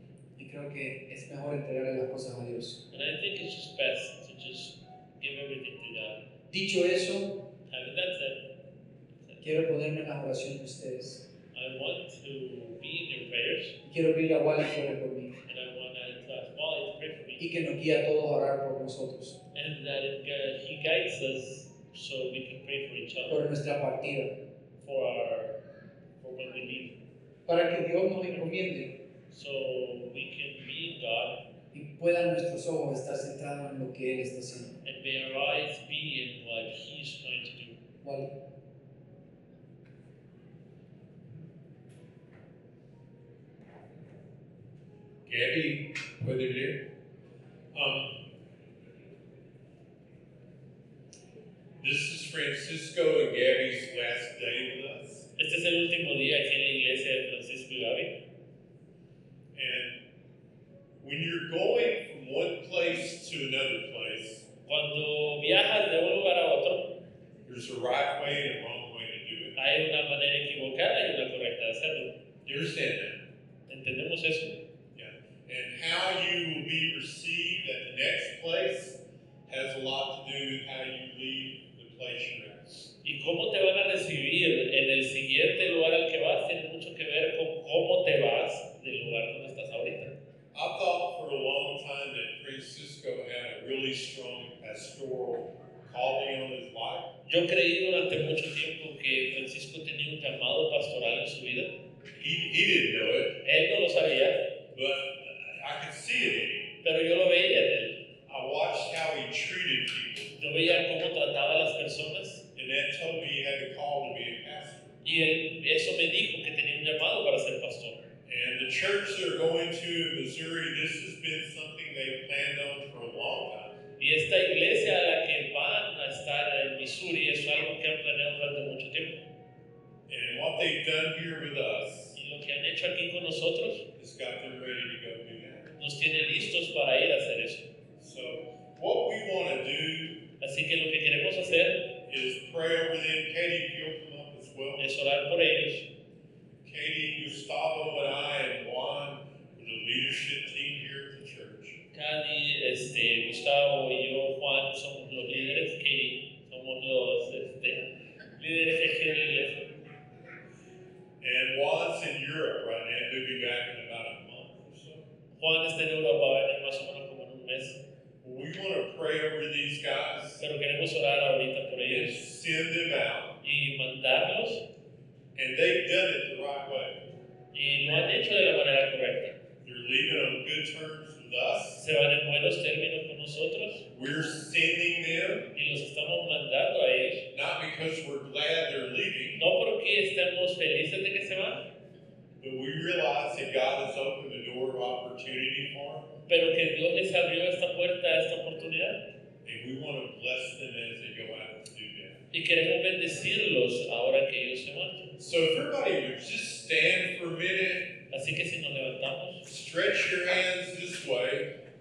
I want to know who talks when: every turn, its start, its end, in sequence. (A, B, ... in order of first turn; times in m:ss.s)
0:00.4-0:02.8 A
0:02.9-0:06.2 B
0:06.5-0:07.5 A
0:07.7-0:08.5 B
0:09.4-0:11.3 A
0:11.5-0:13.8 B
0:13.8-0:15.4 A
0:15.5-0:17.4 B
0:17.4-0:19.4 A
0:19.5-0:23.5 B
0:23.3-0:24.3 A
0:24.8-0:25.6 B
0:26.2-0:27.0 B
0:27.5-0:28.9 A
0:29.3-0:31.4 B
0:31.7-0:34.8 A
0:34.8-0:37.8 B
0:38.0-0:38.3 A
0:45.3-0:46.8 C
0:47.7-0:48.1 C
0:51.8-0:55.3 C
0:55.4-0:58.2 B
0:59.5-1:00.0 C
1:01.0-1:04.5 C
1:04.7-1:07.0 B
1:07.5-1:09.6 C
1:09.6-1:12.1 B
1:12.4-1:13.2 C
1:13.7-1:14.6 B
1:15.0-1:22.9 C
1:23.0-1:30.2 B
1:30.5-1:37.1 C
1:37.3-1:41.7 B
1:42.2-1:43.4 C
1:43.4-1:44.5 B
1:44.7-1:46.7 C
1:46.8-1:48.0 B
1:48.3-1:50.4 C
1:50.4-1:52.5 B
1:52.6-1:54.9 C
1:55.0-1:58.0 B
1:58.3-2:03.8 C
2:04.0-2:09.2 B
2:10.1-2:12.2 C
2:12.2-2:13.9 B
2:14.0-2:15.7 C
2:15.8-2:17.7 B
2:18.0-2:20.3 C
2:20.4-2:21.9 B
2:22.0-2:24.9 C
2:24.8-2:25.9 B
2:26.6-2:31.8 C
2:31.9-2:39.7 B
2:41.2-2:45.0 C
2:45.4-2:47.8 B
2:48.2-2:50.4 C
2:50.4-2:52.2 B
2:51.8-2:53.4 C
2:53.4-2:54.6 B
2:55.4-2:57.0 C
2:57.5-2:59.4 B
2:59.6-3:01.8 C
3:01.8-3:03.9 B
3:03.9-3:05.5 C
3:05.5-3:07.3 B
3:07.3-3:09.4 C
3:09.4-3:11.6 B
3:12.4-3:16.1 C
3:16.3-3:19.0 B
3:19.4-3:22.2 C
3:22.3-3:25.1 B
3:25.2-3:28.0 C
3:28.1-3:29.4 B
3:29.4-3:31.5 C